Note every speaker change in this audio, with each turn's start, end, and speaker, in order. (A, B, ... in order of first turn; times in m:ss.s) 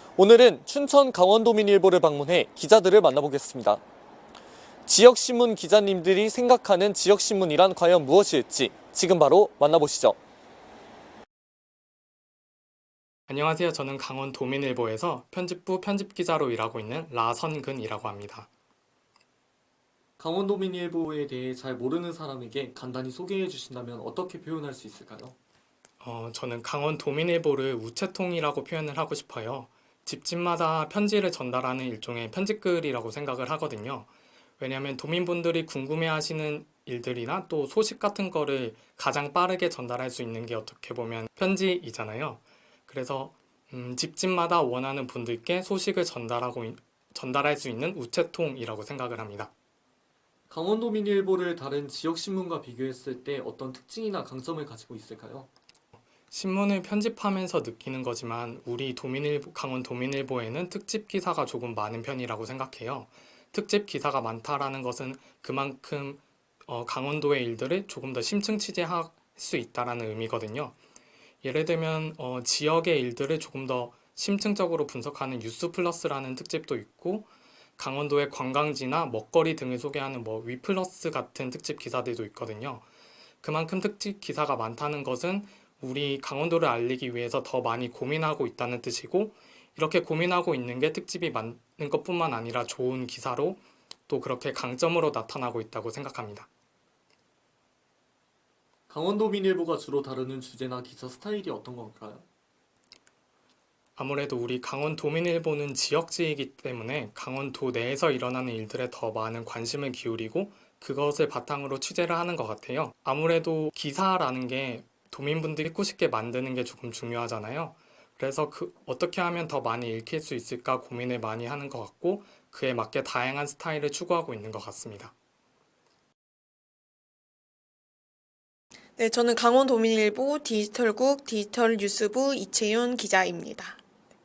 0:00.2-0:03.8 A
0:04.9-0:10.2 A
0:13.3-0:18.5 B
0:20.2-0:25.4 A
0:26.0-0:49.5 B
0:50.5-0:55.5 A
0:56.3-1:10.8 B
1:11.4-1:22.8 B
1:23.4-1:36.5 B
1:38.9-1:42.2 A
1:44.0-2:05.1 B
2:09.0-2:13.8 C